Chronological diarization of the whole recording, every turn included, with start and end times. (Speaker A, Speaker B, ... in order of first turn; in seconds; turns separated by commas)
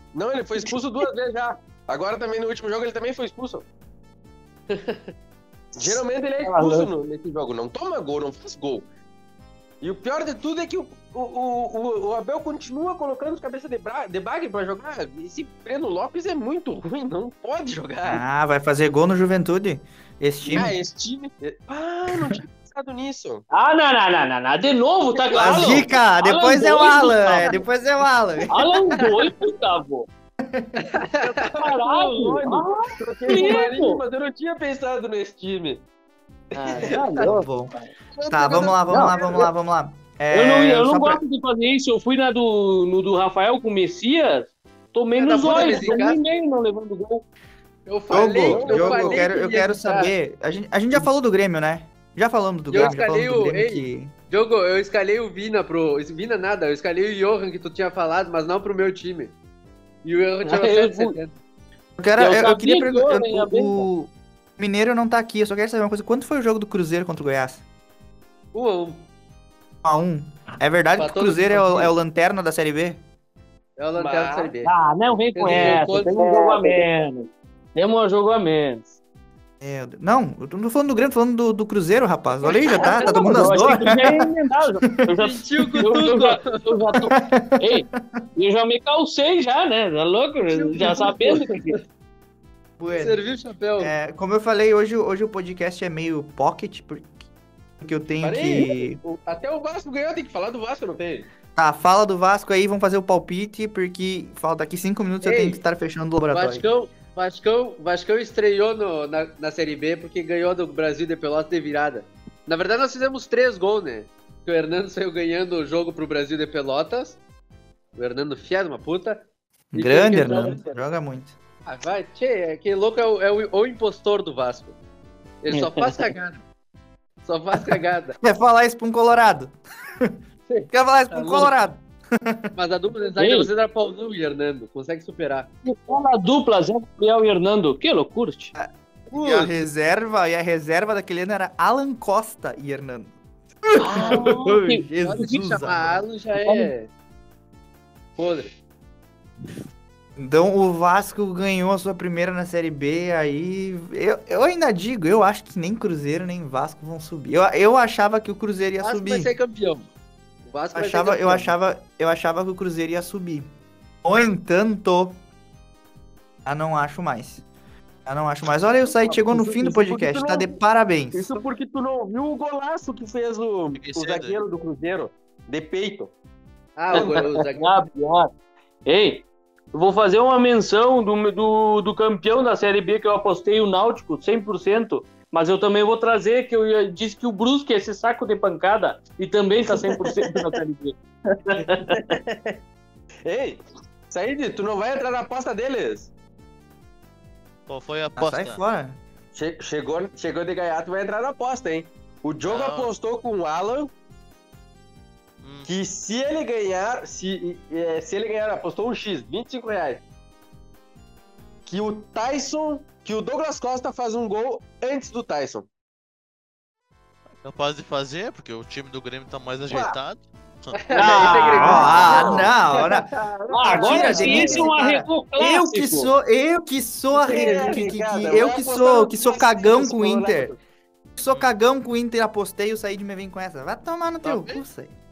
Speaker A: 0.1-3.6, Speaker B: 4.7-5.1, Speaker A: 5.7-8.9, Speaker C: 5.9-6.9, Speaker A: 9.8-18.2, Speaker D: 18.0-20.7, Speaker A: 20.5-23.4, Speaker C: 23.5-27.6, Speaker D: 25.3-28.5, Speaker A: 25.4-25.8, Speaker C: 28.5-30.1, Speaker D: 30.4-30.8, Speaker B: 30.8-31.6, Speaker A: 31.2-35.8, Speaker C: 31.6-34.0, Speaker B: 33.3-33.6, Speaker C: 36.5-37.5, Speaker A: 36.6-37.0, Speaker D: 37.1-37.7, Speaker A: 38.1-39.5, Speaker D: 38.3-41.2, Speaker C: 38.9-39.1, Speaker C: 40.3-47.2, Speaker B: 45.1-46.2, Speaker A: 45.4-46.0, Speaker B: 47.9-50.1, Speaker D: 48.1-54.1, Speaker A: 48.4-49.2, Speaker B: 52.7-59.3, Speaker B: 60.0-61.4, Speaker C: 60.4-61.2, Speaker D: 62.0-67.6, Speaker C: 62.2-63.9, Speaker B: 68.5-69.0, Speaker D: 69.8-73.0, Speaker B: 71.0-71.9, Speaker B: 73.8-74.7, Speaker A: 74.0-74.5, Speaker C: 74.6-78.9, Speaker B: 75.3-76.8, Speaker D: 79.6-84.3, Speaker B: 82.5-83.8, Speaker C: 83.0-91.8, Speaker B: 85.2-86.9, Speaker D: 85.5-85.8, Speaker D: 87.1-88.2, Speaker B: 90.5-91.8, Speaker D: 92.8-93.2, Speaker B: 92.9-93.9, Speaker D: 93.8-97.1, Speaker D: 97.8-99.0, Speaker A: 98.2-101.3, Speaker D: 101.5-106.6, Speaker B: 105.2-105.6, Speaker B: 106.3-117.2, Speaker B: 118.0-120.8, Speaker D: 119.7-121.3, Speaker B: 121.7-124.8, Speaker B: 125.4-126.4, Speaker C: 125.5-126.1, Speaker B: 127.2-128.2, Speaker D: 128.2-130.1, Speaker B: 130.5-131.5, Speaker D: 130.7-132.5, Speaker B: 132.5-135.5, Speaker C: 133.2-133.5, Speaker C: 135.6-138.5, Speaker D: 138.5-143.1, Speaker E: 139.1-139.5, Speaker D: 143.7-146.0, Speaker C: 143.8-144.8, Speaker B: 145.0-146.9, Speaker C: 146.4-146.7, Speaker B: 148.2-148.5, Speaker D: 150.2-159.3, Speaker B: 158.8-159.9, Speaker B: 160.5-161.5, Speaker D: 160.7-163.5, Speaker D: 164.0-165.2, Speaker D: 166.4-167.4, Speaker D: 168.1-171.3, Speaker A: 168.9-170.5, Speaker A: 171.1-176.1, Speaker E: 173.7-174.4, Speaker B: 176.8-177.9, Speaker C: 176.9-178.3, Speaker C: 178.8-192.1, Speaker A: 189.7-190.1, Speaker A: 191.6-192.6, Speaker A: 193.2-196.1, Speaker E: 197.7-198.6, Speaker D: 198.2-199.0, Speaker A: 199.3-203.9, Speaker E: 202.4-202.9, Speaker E: 205.4-205.7, Speaker A: 205.7-210.0, Speaker A: 211.7-215.7, Speaker E: 217.4-222.3, Speaker A: 219.7-220.0, Speaker B: 220.8-223.0, Speaker C: 221.0-221.9, Speaker A: 221.4-224.7, Speaker D: 221.5-223.1, Speaker C: 223.5-226.1, Speaker D: 223.7-230.5, Speaker B: 223.8-224.6, Speaker B: 227.2-227.8, Speaker A: 227.2-230.6, Speaker D: 231.2-234.9, Speaker E: 234.2-234.6